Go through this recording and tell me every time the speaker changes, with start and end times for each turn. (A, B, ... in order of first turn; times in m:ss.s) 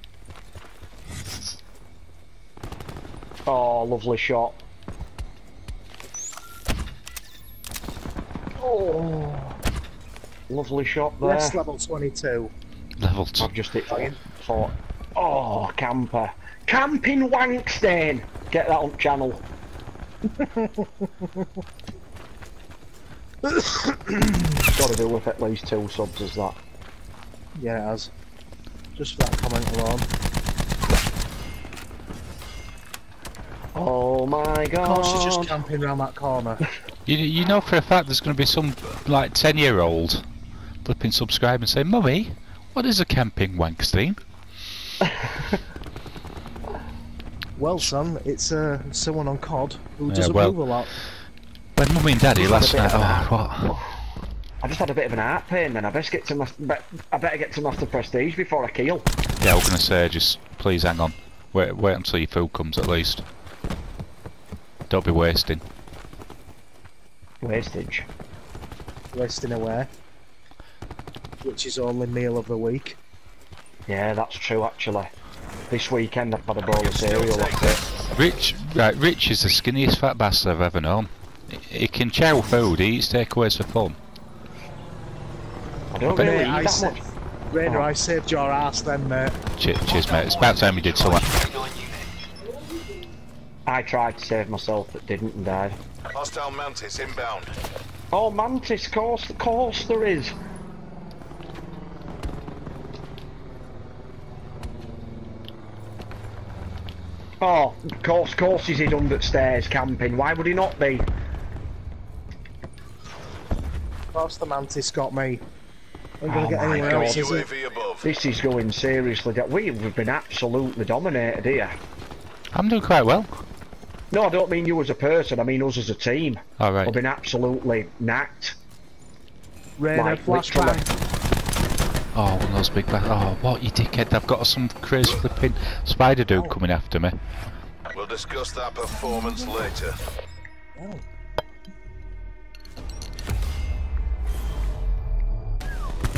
0:03.5-0:04.6 A
0:08.6-0:09.6 A
0:10.5-0:11.6 A
0:11.2-0:12.5 B
0:13.0-0:13.5 C
0:13.4-0:19.4 A
0:13.9-0:14.2 B
0:20.4-0:21.5 B
0:23.4-0:24.7 B
0:24.7-0:26.6 A
0:27.6-0:28.1 B
0:28.9-0:30.1 B
0:33.8-0:35.6 A
0:34.8-0:36.7 B
0:37.1-0:40.2 C
0:40.8-0:44.2 C
0:47.6-0:51.0 B
0:50.1-0:50.6 C
0:51.8-0:53.7 C
0:52.3-0:53.9 A
0:54.6-0:59.1 A
0:59.4-1:03.2 C
1:04.9-1:05.6 C
1:07.4-1:08.1 A
1:09.1-1:09.9 B
1:11.4-1:13.0 B
1:13.9-1:15.1 A
1:15.7-1:17.8 A
1:16.7-1:17.8 D
1:18.2-1:24.0 C
1:25.9-1:27.0 A
1:26.1-1:26.4 C
1:26.2-1:29.4 B
1:27.6-1:27.9 A
1:29.6-1:31.2 C
1:29.9-1:32.1 D
1:33.7-1:35.8 A
1:36.1-1:37.5 D
1:38.1-1:40.3 A
1:47.4-1:51.1 A
1:54.1-1:55.4 B
1:56.2-1:57.5 B
1:56.2-1:57.5 A
1:56.7-1:58.1 D
1:58.0-2:01.8 A
2:02.5-2:03.3 C
2:04.1-2:08.6 A
2:06.6-2:07.0 C
2:09.8-2:10.9 B
2:09.9-2:10.8 A
2:12.1-2:17.2 C
2:16.3-2:16.6 B
2:17.9-2:20.0 D
2:18.9-2:19.7 B
2:20.8-2:21.0 B